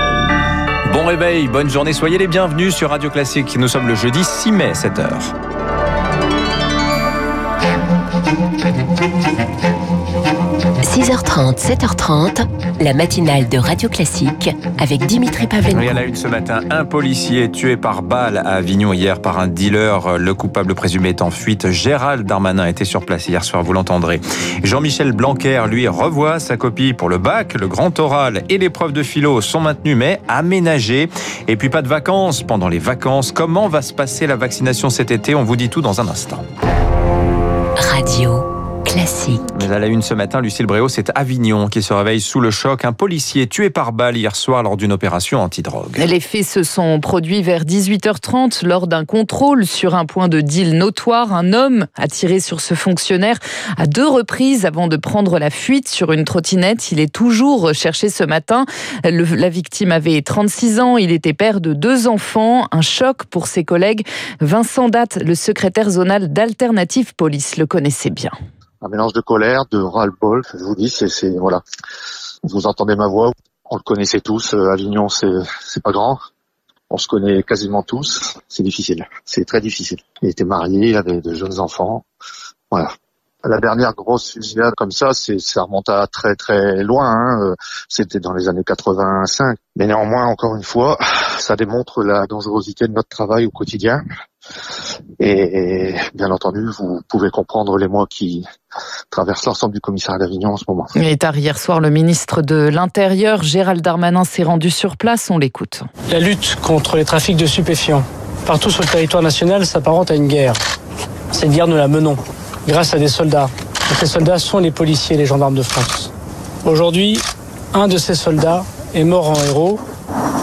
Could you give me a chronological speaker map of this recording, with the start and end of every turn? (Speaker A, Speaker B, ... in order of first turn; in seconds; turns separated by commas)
Speaker A: 0.8-5.3, Speaker B: 10.8-16.0, Speaker A: 15.8-36.4, Speaker B: 37.8-39.6, Speaker A: 39.5-46.1, Speaker C: 46.0-68.3, Speaker D: 68.8-71.6, Speaker D: 72.4-76.2, Speaker D: 76.9-82.0, Speaker D: 83.4-94.0, Speaker D: 95.2-98.5, Speaker D: 99.1-100.9, Speaker C: 101.0-105.8, Speaker E: 106.1-110.6, Speaker E: 111.3-116.1, Speaker E: 116.6-117.2, Speaker E: 117.7-119.8